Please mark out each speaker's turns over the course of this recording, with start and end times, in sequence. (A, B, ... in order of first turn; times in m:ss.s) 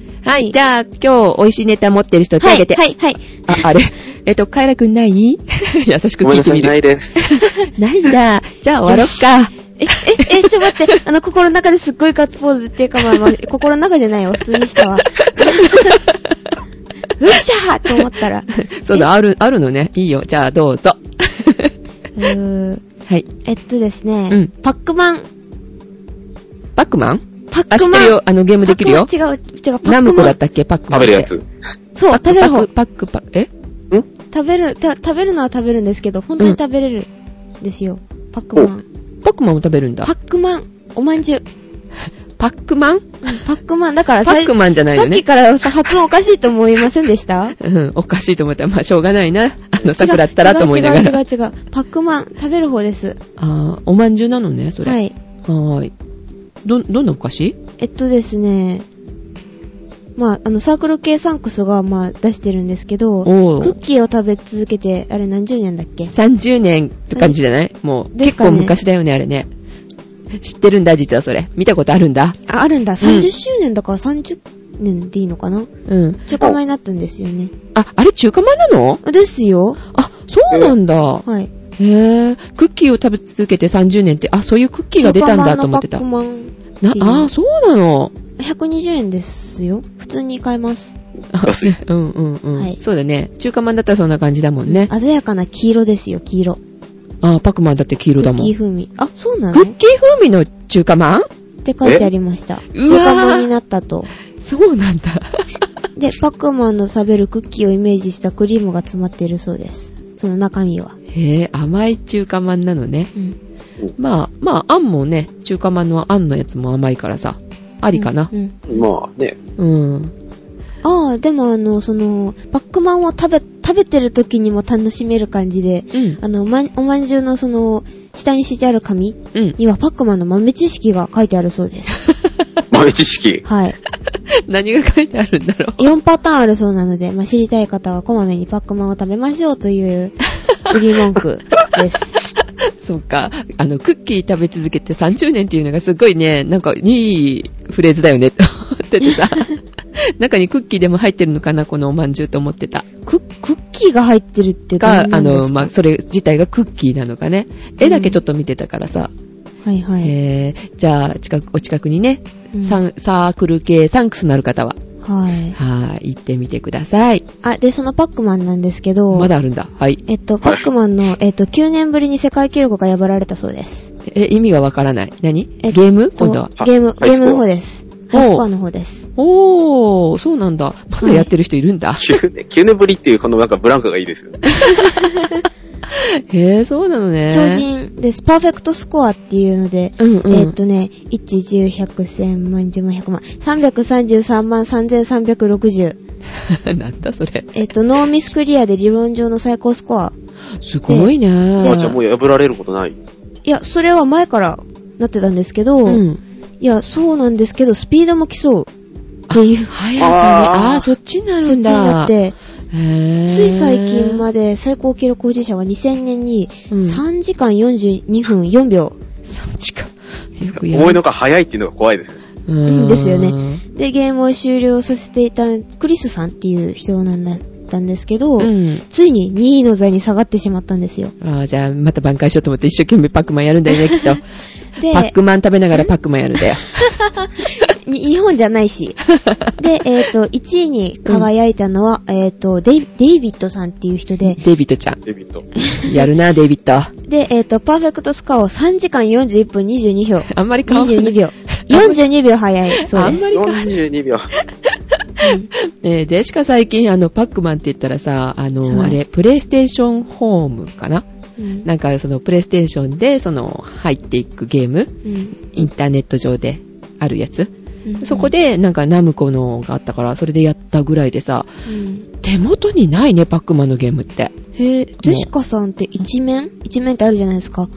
0:00.2-0:10.9 A
0:02.4-0:03.6 B
0:06.2-0:07.3 C
0:08.8-0:16.0 B
0:15.4-0:16.4 A
0:17.2-0:19.1 B
0:18.6-0:21.7 A
0:22.2-0:22.8 B
0:23.4-0:25.3 B
0:26.8-0:29.1 A
0:27.5-0:30.4 B
0:29.8-0:31.3 A
0:30.9-0:31.4 C
0:32.0-0:32.7 B
0:32.1-0:33.5 A
0:34.3-0:37.1 B
0:37.6-0:38.8 B
0:39.2-0:40.1 A
0:40.0-0:41.4 B
0:42.4-0:43.4 A
0:43.2-0:47.6 B
0:44.2-0:45.2 A
0:47.6-0:51.2 A
0:49.8-0:53.2 B
0:53.4-0:55.9 A
0:54.8-0:55.1 B
0:56.6-0:57.6 A
0:57.8-0:58.9 B
1:00.2-1:06.1 B
1:03.2-1:03.8 A
1:06.1-1:09.5 A
1:08.1-1:08.8 B
1:10.3-1:12.4 A
1:12.5-1:15.7 B
1:13.0-1:13.3 A
1:15.9-1:16.2 A
1:16.3-1:17.5 B
1:17.8-1:19.0 A
1:19.0-1:19.8 B
1:19.9-1:21.2 A
1:21.2-1:21.5 B
1:21.8-1:26.0 A
1:25.0-1:27.3 B
1:26.8-1:28.2 A
1:28.4-1:31.0 B
1:31.3-1:34.9 A
1:31.4-1:31.8 C
1:34.6-1:36.6 B
1:37.2-1:38.5 A
1:38.2-1:39.8 B
1:39.5-1:41.3 A
1:41.6-1:44.1 B
1:42.7-1:43.5 A
1:44.4-1:45.5 A
1:46.0-1:51.0 B
1:51.1-1:53.1 A
1:54.0-1:58.3 A
1:57.9-1:58.6 B
1:58.7-1:59.4 C
1:59.6-2:00.1 A
2:00.8-2:12.1 B
2:05.9-2:06.2 A
2:12.2-2:12.6 A
2:12.7-2:13.4 C
2:13.4-2:13.8 B
2:14.1-2:15.9 A
2:15.8-2:22.3 B
2:22.7-2:32.9 A
2:29.0-2:29.4 B
2:33.1-2:35.7 B
2:34.8-2:39.1 A
2:37.8-2:38.2 B
2:39.6-2:40.1 B
2:40.0-2:44.8 A
2:42.5-2:42.8 B
2:45.0-2:45.6 B
2:45.5-2:47.2 A
2:47.4-2:49.3 B
2:49.1-2:50.0 A
2:50.1-2:53.9 B
2:54.0-2:56.5 A
2:55.6-2:59.1 B
2:56.6-2:57.4 C
2:58.1-2:58.4 A
2:59.2-3:02.1 A
3:01.0-3:01.3 B
3:02.0-3:04.5 C
3:04.6-3:05.1 A
3:04.6-3:05.4 B
3:05.9-3:07.6 A
3:07.3-3:16.0 B
3:10.0-3:10.5 A
3:16.4-3:17.7 A
3:17.5-3:20.1 B
3:20.6-3:22.0 A
3:20.9-3:21.9 B
3:21.6-3:23.0 C
3:23.4-3:26.0 B
3:25.9-3:26.2 A
3:26.6-3:28.7 B
3:29.3-3:32.1 A
3:29.3-3:29.8 B
3:30.0-3:30.9 C
3:31.4-3:32.4 B
3:32.7-3:34.2 A
3:33.3-3:39.0 B
3:36.7-3:37.0 A
3:39.3-3:41.0 A
3:40.6-3:42.2 C
3:42.5-3:43.6 A
3:42.6-3:51.1 B
3:48.4-3:48.8 A
3:51.2-3:54.2 A
3:53.7-3:54.2 B
3:54.8-3:55.1 B
3:54.9-3:56.7 A
3:56.7-4:04.4 B
3:59.1-3:59.5 A
4:04.2-4:05.0 A
4:05.1-4:05.5 C
4:05.6-4:06.1 B
4:05.8-4:06.9 A
4:07.1-4:13.4 B
4:10.3-4:12.0 A
4:12.8-4:13.7 A
4:13.3-4:14.3 C
4:14.5-4:21.1 A
4:15.2-4:15.5 B
4:18.7-4:19.0 B
4:21.4-4:21.7 B
4:21.6-4:31.5 A
4:25.0-4:25.4 B
4:27.8-4:28.3 B
4:31.6-4:32.1 B
4:32.2-4:34.4 A
4:34.6-4:37.7 B
4:35.0-4:35.3 A